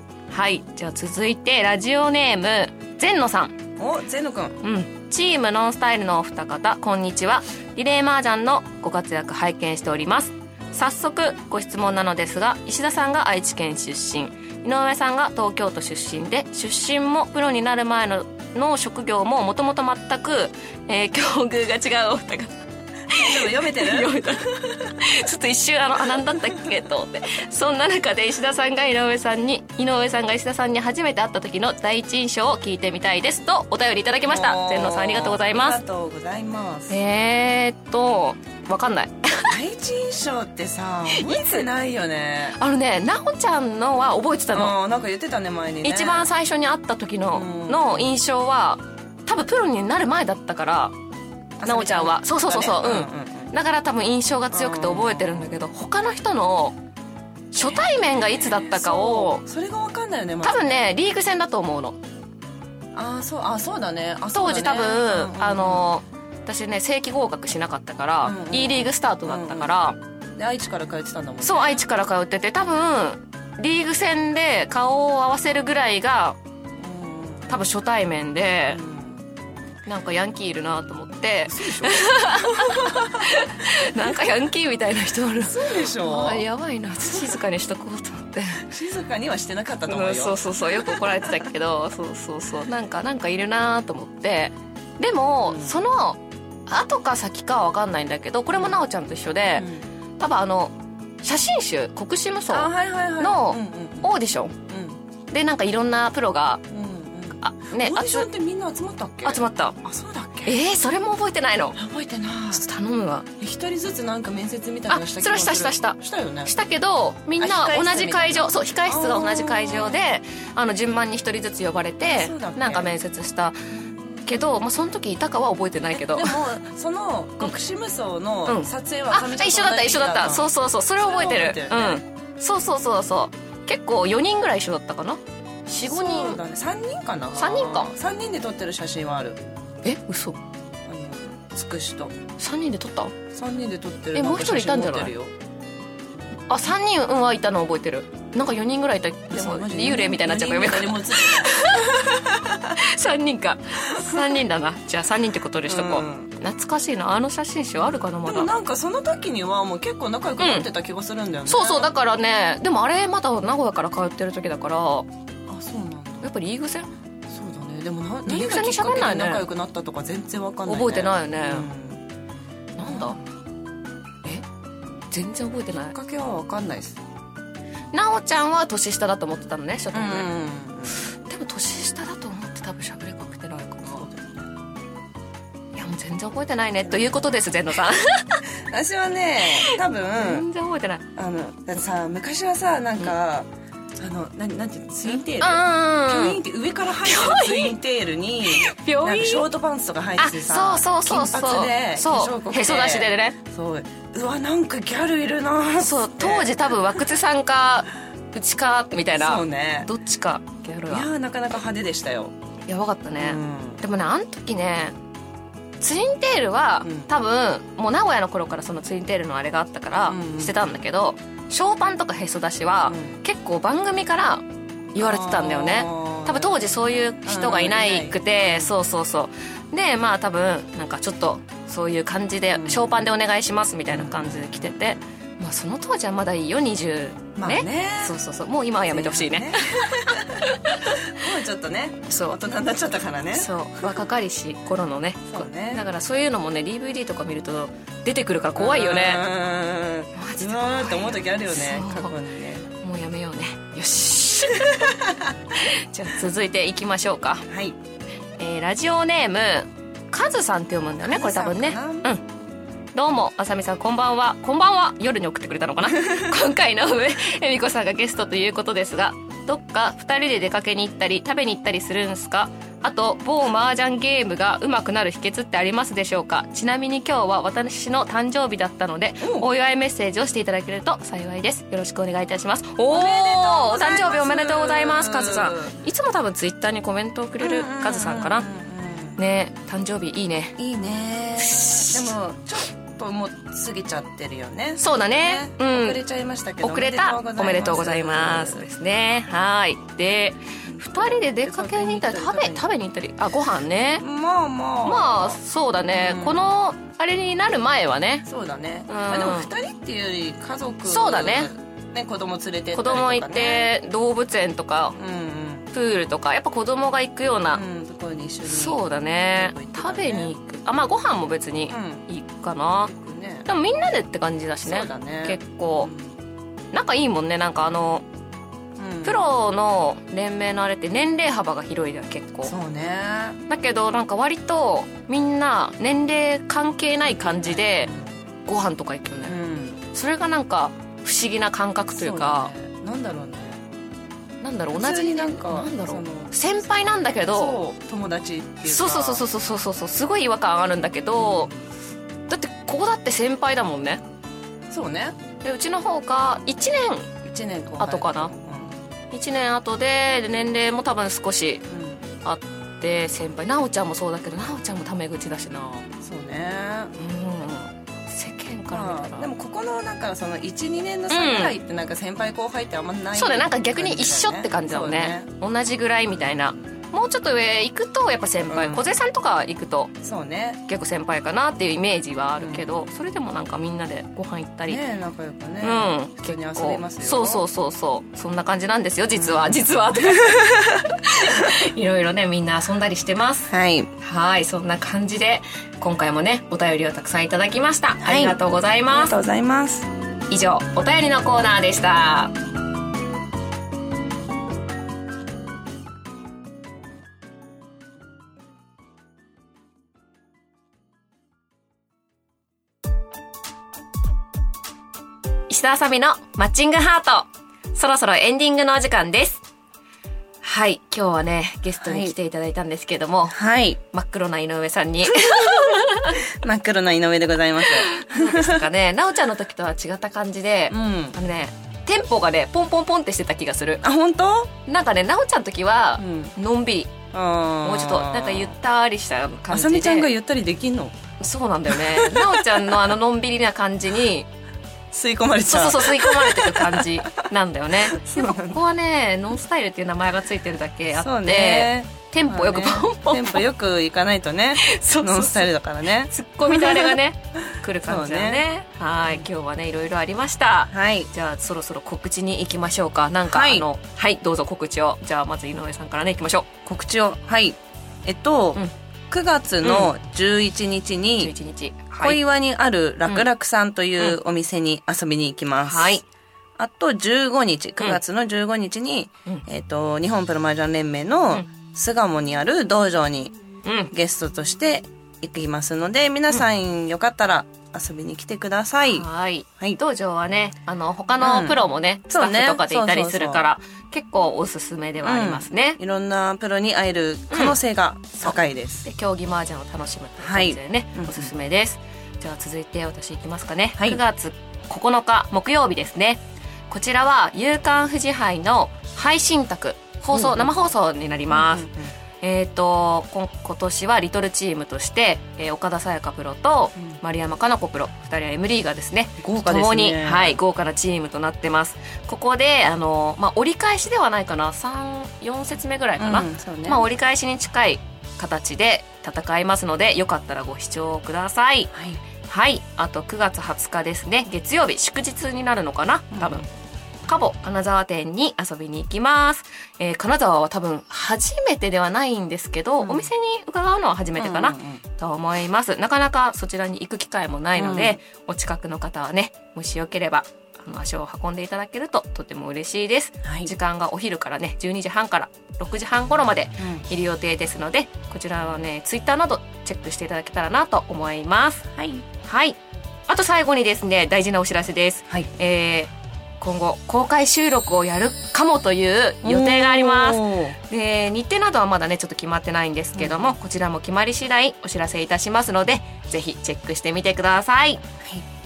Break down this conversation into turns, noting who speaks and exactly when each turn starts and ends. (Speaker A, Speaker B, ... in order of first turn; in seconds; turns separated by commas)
Speaker A: 0.3-3.6, Speaker B: 3.8-4.6, Speaker A: 4.6-22.5, Speaker A: 23.1-35.8, Speaker B: 23.1-24.2, Speaker B: 34.2-37.0, Speaker A: 36.9-39.6, Speaker B: 39.5-42.6, Speaker A: 41.1-41.7, Speaker A: 42.6-44.8, Speaker B: 44.5-46.3, Speaker A: 45.8-50.9, Speaker B: 47.3-48.2, Speaker B: 51.6-53.5, Speaker A: 51.6-56.8, Speaker B: 54.5-55.5, Speaker A: 57.5-59.4, Speaker B: 57.6-60.7, Speaker A: 60.4-62.0, Speaker B: 62.9-65.9, Speaker A: 64.3-70.0, Speaker B: 68.2-69.7, Speaker B: 70.4-71.8, Speaker A: 71.4-76.4, Speaker B: 76.8-77.7, Speaker A: 77.5-78.8, Speaker B: 78.7-79.2, Speaker A: 79.9-88.7, Speaker B: 81.5-84.1, Speaker B: 85.4-86.5, Speaker B: 87.1-87.4, Speaker B: 88.6-91.4, Speaker A: 89.9-99.7, Speaker B: 95.4-95.8, Speaker B: 98.5-98.8, Speaker B: 99.5-99.9, Speaker A: 100.2-104.5, Speaker B: 102.5-104.1, Speaker B: 104.7-105.0, Speaker A: 105.3-106.6, Speaker B: 106.7-110.6, Speaker A: 107.4-108.3, Speaker A: 109.2-109.8, Speaker A: 110.5-111.8, Speaker B: 111.8-112.7, Speaker A: 112.5-113.3, Speaker B: 113.4-116.5, Speaker A: 114.9-123.6, Speaker B: 117.4-120.0, Speaker B: 122.0-122.9, Speaker A: 124.2-126.4, Speaker B: 125.9-132.0, Speaker A: 128.5-136.4, Speaker B: 135.8-139.4, Speaker A: 137.3-137.9, Speaker A: 139.8-140.4, Speaker B: 140.8-142.2, Speaker A: 142.4-143.2, Speaker B: 143.3-145.3, Speaker A: 144.1-145.1, Speaker A: 146.5-158.5, Speaker B: 149.3-152.7, Speaker B: 155.7-156.3, Speaker B: 157.8-161.9, Speaker A: 160.4-160.7, Speaker A: 161.5-165.1, Speaker B: 165.5-166.2, Speaker A: 166.2-166.9, Speaker B: 167.3-172.0, Speaker A: 168.3-169.4, Speaker A: 170.7-171.7, Speaker A: 172.8-173.2, Speaker B: 172.8-173.2, Speaker A: 175.1-175.9, Speaker B: 175.9-177.0, Speaker A: 177.9-180.3, Speaker B: 179.9-181.1, Speaker A: 181.1-184.1, Speaker B: 183.9-184.5, Speaker A: 185.8-188.4, Speaker B: 188.7-190.5, Speaker A: 189.5-191.1, Speaker B: 191.2-207.0, Speaker A: 195.1-196.4, Speaker A: 197.0-197.8, Speaker A: 198.4-199.5, Speaker A: 200.2-203.4, Speaker A: 205.8-211.1, Speaker B: 209.1-209.9, Speaker B: 210.9-212.3, Speaker A: 212.7-214.9, Speaker B: 213.2-213.8, Speaker A: 215.8-241.0, Speaker B: 216.8-217.1, Speaker B: 220.1-220.8, Speaker B: 222.9-223.2, Speaker B: 225.0-228.7, Speaker B: 232.5-233.0, Speaker B: 233.9-235.0, Speaker B: 237.4-238.2, Speaker B: 238.9-243.5, Speaker A: 242.1-242.4, Speaker A: 243.3-249.3, Speaker B: 245.3-245.8, Speaker B: 248.6-252.7, Speaker A: 250.2-252.2, Speaker A: 252.8-257.5, Speaker B: 254.6-255.3, Speaker B: 257.5-257.8, Speaker A: 258.4-262.2, Speaker B: 261.0-262.1, Speaker A: 262.9-288.5, Speaker B: 279.2-279.5, Speaker B: 282.9-285.7, Speaker B: 287.4-289.2, Speaker A: 289.2-290.6, Speaker B: 290.6-298.6, Speaker A: 291.4-292.1, Speaker A: 294.8-296.0, Speaker A: 296.6-304.0, Speaker B: 300.6-302.7, Speaker B: 304.0-306.5, Speaker A: 304.9-308.3, Speaker B: 308.3-313.7, Speaker A: 308.9-309.5, Speaker A: 310.9-311.5, Speaker A: 312.7-315.0, Speaker B: 315.0-315.7, Speaker A: 315.7-317.6, Speaker B: 317.5-320.3, Speaker A: 318.4-322.9, Speaker B: 321.7-322.1, Speaker B: 322.9-323.5, Speaker A: 323.5-325.9, Speaker B: 324.6-326.2, Speaker A: 326.7-328.1, Speaker B: 328.8-329.3, Speaker A: 329.0-332.5, Speaker B: 332.4-333.4, Speaker A: 333.5-337.9, Speaker B: 337.0-338.1, Speaker A: 338.5-339.4, Speaker B: 339.2-339.8, Speaker A: 339.9-342.5, Speaker B: 341.9-343.6, Speaker A: 344.4-347.6, Speaker B: 344.7-346.3, Speaker B: 347.2-349.2, Speaker A: 348.6-351.5, Speaker B: 351.1-351.6, Speaker A: 352.3-354.0, Speaker B: 354.7-355.2, Speaker A: 355.4-357.1, Speaker B: 357.2-358.8, Speaker A: 357.8-358.3, Speaker A: 359.1-361.6, Speaker B: 361.7-362.1, Speaker A: 362.2-365.9, Speaker B: 366.0-366.9, Speaker A: 367.0-369.3, Speaker B: 368.7-375.3, Speaker A: 371.1-371.6, Speaker A: 373.1-379.9, Speaker B: 378.5-378.9, Speaker B: 380.0-380.6, Speaker A: 380.7-384.8, Speaker B: 382.4-382.9, Speaker B: 384.7-387.4, Speaker A: 385.6-399.2, Speaker B: 389.1-389.6, Speaker B: 390.1-390.8, Speaker B: 393.5-393.9, Speaker B: 398.0-399.9, Speaker A: 400.3-402.3, Speaker A: 415.5-419.4, Speaker A: 420.4-423.4, Speaker B: 421.8-422.1, Speaker B: 423.3-423.8, Speaker A: 423.9-426.2, Speaker B: 425.1-428.6, Speaker A: 427.9-433.8, Speaker B: 430.7-431.2, Speaker B: 433.8-434.5, Speaker A: 434.7-436.9, Speaker B: 436.0-436.3, Speaker B: 437.1-438.6, Speaker A: 437.6-440.1, Speaker B: 439.5-440.9, Speaker A: 441.2-444.3, Speaker B: 441.7-442.8, Speaker B: 444.9-447.2, Speaker A: 445.5-453.5, Speaker B: 447.8-448.6, Speaker B: 451.0-457.0, Speaker A: 454.6-466.5, Speaker B: 457.9-458.5, Speaker B: 460.7-461.1, Speaker B: 463.3-463.7, Speaker B: 466.7-471.3, Speaker A: 469.6-469.9, Speaker A: 471.2-472.2, Speaker B: 472.0-476.0, Speaker A: 475.6-476.1, Speaker B: 476.6-483.3, Speaker A: 483.7-483.9, Speaker B: 483.9-489.1, Speaker A: 488.8-495.8, Speaker B: 491.2-491.6, Speaker B: 492.1-493.4, Speaker B: 495.0-498.9, Speaker A: 497.3-497.6, Speaker A: 498.2-511.7, Speaker B: 500.2-501.3, Speaker B: 510.1-510.5, Speaker B: 511.3-511.9, Speaker A: 512.2-531.7, Speaker B: 519.2-520.4, Speaker B: 526.0-526.9, Speaker B: 531.7-532.0, Speaker A: 532.3-536.5, Speaker B: 536.1-536.4, Speaker A: 537.1-561.7, Speaker B: 542.8-543.1, Speaker B: 544.2-544.8, Speaker B: 547.6-548.0, Speaker B: 553.2-553.5, Speaker B: 556.6-556.8, Speaker B: 561.8-562.0, Speaker A: 562.2-562.6, Speaker A: 563.1-577.8, Speaker B: 569.2-570.6, Speaker B: 573.0-573.4